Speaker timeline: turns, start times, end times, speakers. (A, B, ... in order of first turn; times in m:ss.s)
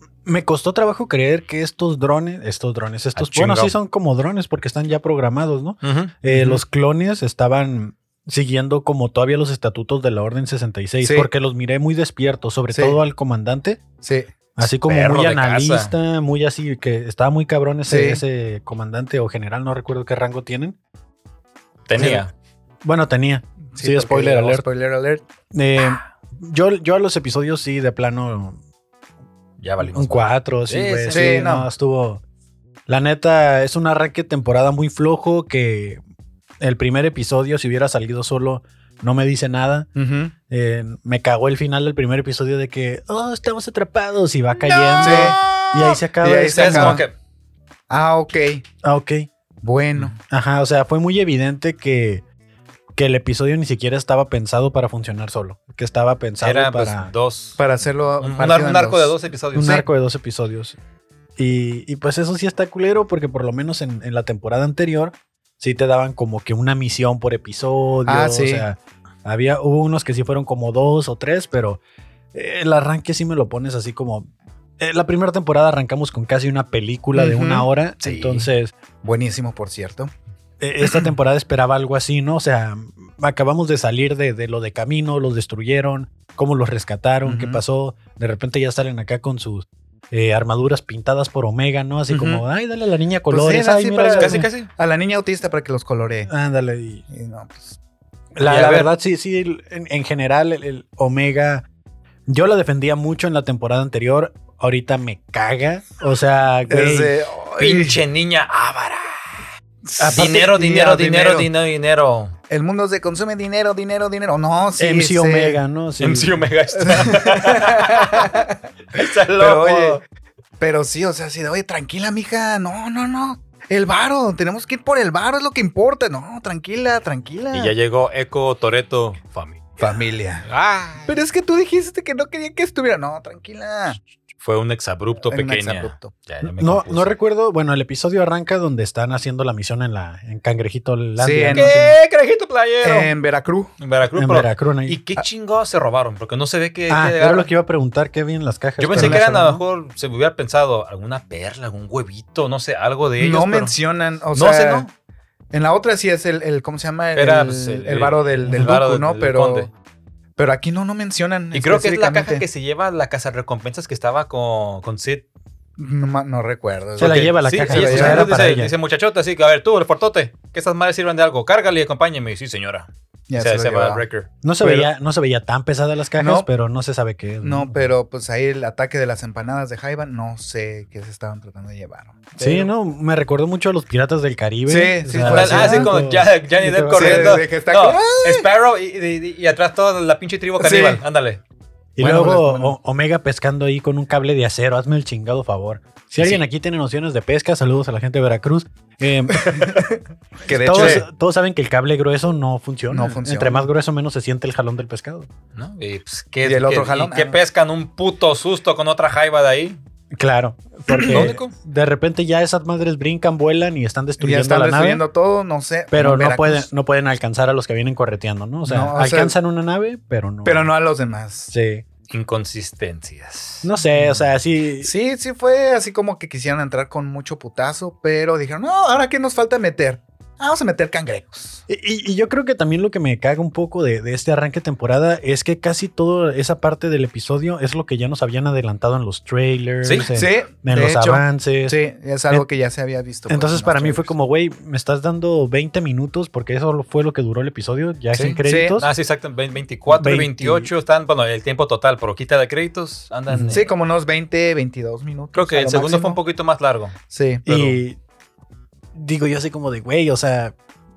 0:00.2-0:13.8 A
0:03.2-0:03.7 B
0:05.8-0:06.1 B
0:06.3-0:06.6 C
0:11.0-0:11.3 C
0:12.7-0:13.0 C
0:14.0-0:14.3 C
0:14.6-0:20.8 A
0:14.8-0:15.9 B
0:17.9-0:18.2 C
0:21.9-0:22.3 B
0:22.0-0:22.2 A
0:22.8-0:24.6 A
0:23.7-0:25.2 C
0:25.5-0:28.6 A
0:29.6-0:31.3 B
0:29.8-0:32.2 A
0:31.1-0:31.7 C
0:32.9-0:36.0 A
0:36.6-0:39.9 A
0:40.0-0:40.4 C
0:40.5-0:47.0 A
0:44.6-0:46.0 B
0:45.0-0:45.4 C
0:46.2-0:47.1 C
0:46.5-0:47.2 B
0:47.9-0:48.6 C
0:48.8-0:49.3 A
0:49.6-0:50.2 C
0:50.2-0:52.2 A
0:52.9-0:57.1 A
0:56.4-0:57.6 B
0:57.6-0:59.9 C
0:58.2-0:59.8 B
0:59.6-1:00.8 A
1:01.4-1:11.8 A
1:08.1-1:08.7 C
1:12.3-1:18.7 A
1:17.2-1:17.7 C
1:18.0-1:18.5 B
1:19.0-1:20.1 C
1:20.6-1:34.4 A
1:20.8-1:21.1 C
1:27.2-1:27.6 C
1:32.1-1:32.4 C
1:33.3-1:36.3 C
1:34.2-1:34.7 B
1:36.3-1:37.1 A
1:37.1-1:37.8 C
1:38.4-1:41.7 A
1:38.4-1:38.9 B
1:42.3-1:47.1 A
1:46.7-1:48.0 C
1:47.6-1:49.4 B
1:49.8-1:51.5 C
1:50.0-1:50.3 A
1:50.1-1:52.4 B
1:52.5-1:55.6 C
1:54.8-1:56.5 A
1:56.0-1:58.4 B
1:56.8-1:58.6 C
1:58.9-2:00.0 B
1:59.3-2:00.0 C
2:00.6-2:07.7 C
2:07.5-2:11.1 B
2:09.8-2:10.5 C
2:11.0-2:14.0 C
2:14.4-2:17.2 B
2:15.2-2:16.1 C
2:16.4-2:22.0 A
2:21.2-2:21.8 C
2:21.5-2:23.1 B
2:22.8-2:23.7 C
2:23.8-2:27.5 B
2:24.2-2:25.0 A
2:26.9-2:29.6 A
2:28.8-2:33.8 B
2:28.9-2:29.2 C
2:33.2-2:34.9 C
2:34.3-2:34.9 B
2:35.5-2:39.7 C
2:37.2-2:39.7 B
2:38.5-2:38.7 A
2:40.4-2:42.4 C
2:41.5-2:45.2 B
2:45.8-2:48.4 C
2:47.0-2:48.7 A
2:47.0-2:54.3 B
2:53.3-2:54.0 C
2:54.4-2:57.9 A
2:54.6-2:54.9 C
2:56.2-2:56.5 C
2:57.4-3:02.7 C
3:02.4-3:07.4 A
3:04.7-3:05.9 C
3:05.2-3:11.4 B
3:07.0-3:08.5 C
3:10.6-3:11.0 C
3:12.0-3:19.7 A
3:12.0-3:12.8 C
3:19.5-3:21.1 C
3:19.5-3:19.8 B
3:20.5-3:25.3 A
3:22.9-3:23.7 C
3:25.6-3:29.8 B
3:26.4-3:27.4 C
3:30.1-3:35.0 A
3:30.9-3:31.3 C
3:31.0-3:31.5 B
3:34.2-3:36.7 C
3:35.9-3:40.7 A
3:38.6-3:39.4 C
3:40.4-3:41.5 C
3:41.5-3:41.9 A
3:42.1-3:43.7 B
3:43.6-3:44.9 A
3:44.8-3:51.6 C
3:51.7-4:01.8 A
3:59.8-4:00.1 B
4:00.2-4:04.1 C
4:03.3-4:08.9 A
4:08.1-4:13.7 B
4:08.5-4:08.8 C
4:09.9-4:10.7 A
4:13.3-4:13.6 A
4:13.5-4:16.2 C
4:15.4-4:17.0 B
4:17.1-4:17.6 C
4:17.5-4:18.0 A
4:17.5-4:17.7 B
4:18.9-4:20.6 A